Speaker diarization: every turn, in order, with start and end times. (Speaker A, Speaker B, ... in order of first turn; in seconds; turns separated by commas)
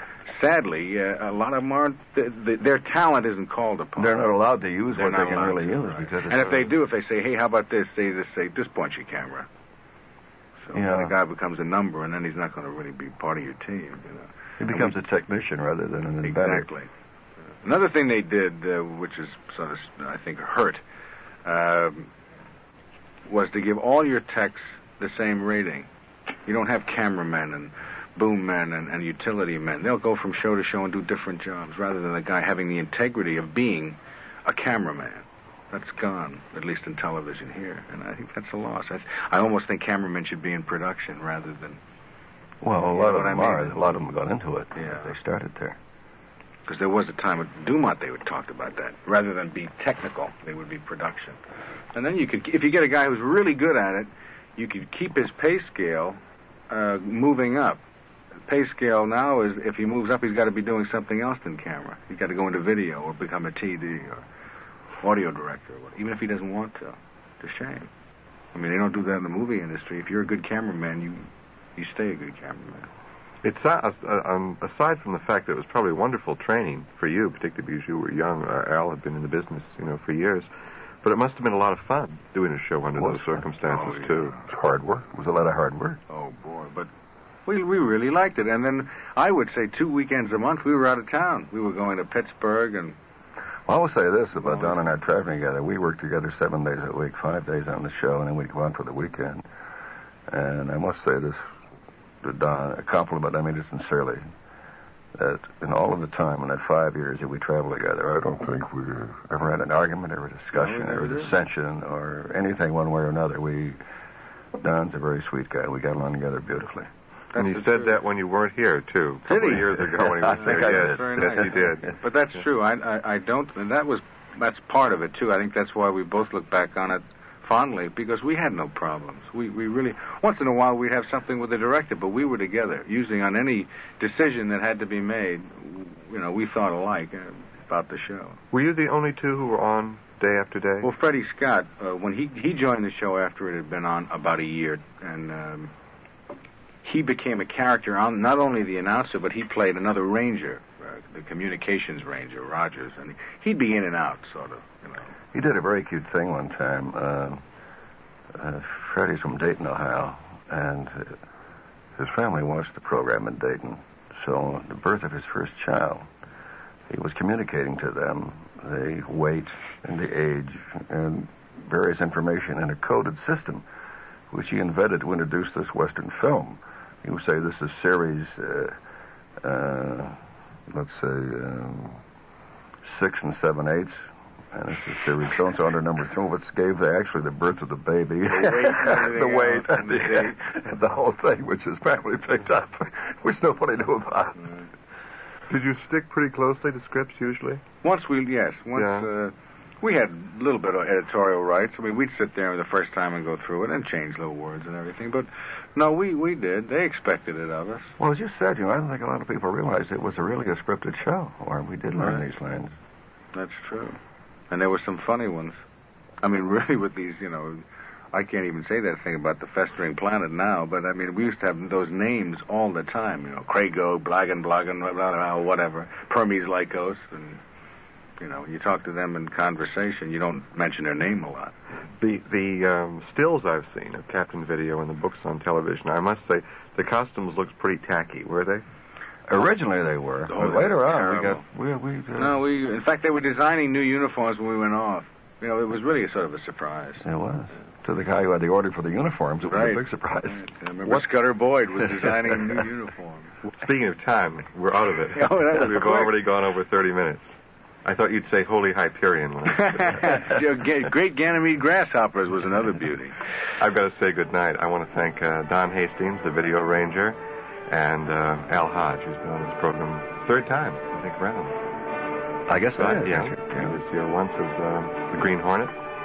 Speaker A: 0.2-4.2, Speaker B: 4.0-6.8, Speaker A: 4.9-9.5, Speaker A: 10.6-14.9, Speaker B: 10.7-11.1, Speaker B: 14.6-16.7, Speaker A: 16.2-16.9, Speaker A: 17.6-20.8, Speaker A: 21.4-22.1, Speaker A: 23.2-25.9, Speaker A: 26.5-41.8, Speaker B: 42.6-45.8, Speaker A: 42.8-44.0, Speaker A: 44.8-45.1, Speaker A: 46.6-51.4, Speaker A: 51.9-56.2, Speaker A: 56.7-57.8, Speaker A: 58.5-64.2, Speaker A: 65.0-67.9, Speaker A: 68.5-72.9, Speaker C: 73.4-80.5, Speaker C: 81.0-84.4, Speaker B: 83.0-83.5, Speaker A: 83.6-84.5, Speaker B: 84.4-86.0, Speaker A: 86.1-86.9, Speaker A: 87.5-93.0, Speaker B: 93.7-99.4, Speaker B: 100.3-101.4, Speaker B: 102.2-104.2, Speaker B: 105.1-113.8, Speaker A: 110.5-111.4, Speaker B: 114.5-116.9, Speaker A: 117.3-118.0, Speaker C: 117.3-122.0, Speaker B: 119.3-121.6, Speaker A: 119.3-119.6, Speaker A: 120.3-138.4, Speaker C: 138.5-140.9, Speaker A: 140.8-145.7, Speaker A: 146.8-155.1, Speaker B: 155.3-157.4, Speaker B: 158.3-161.2, Speaker B: 161.9-166.1, Speaker B: 166.9-173.6, Speaker B: 174.3-178.8, Speaker B: 179.4-182.0, Speaker B: 182.8-194.5, Speaker A: 188.2-190.4, Speaker C: 195.5-197.6, Speaker A: 197.8-207.9, Speaker C: 198.8-199.1, Speaker B: 208.0-212.8, Speaker A: 213.3-214.0, Speaker A: 214.5-215.6, Speaker A: 216.2-227.4, Speaker A: 228.2-231.5, Speaker C: 232.0-238.6, Speaker B: 239.3-242.4, Speaker A: 240.3-241.4, Speaker A: 242.2-247.0, Speaker B: 247.0-250.4, Speaker A: 249.4-253.3, Speaker C: 253.4-260.4, Speaker A: 255.1-256.2, Speaker A: 259.5-263.2, Speaker C: 263.6-267.2, Speaker C: 267.7-271.6, Speaker B: 272.5-273.8, Speaker C: 272.8-275.7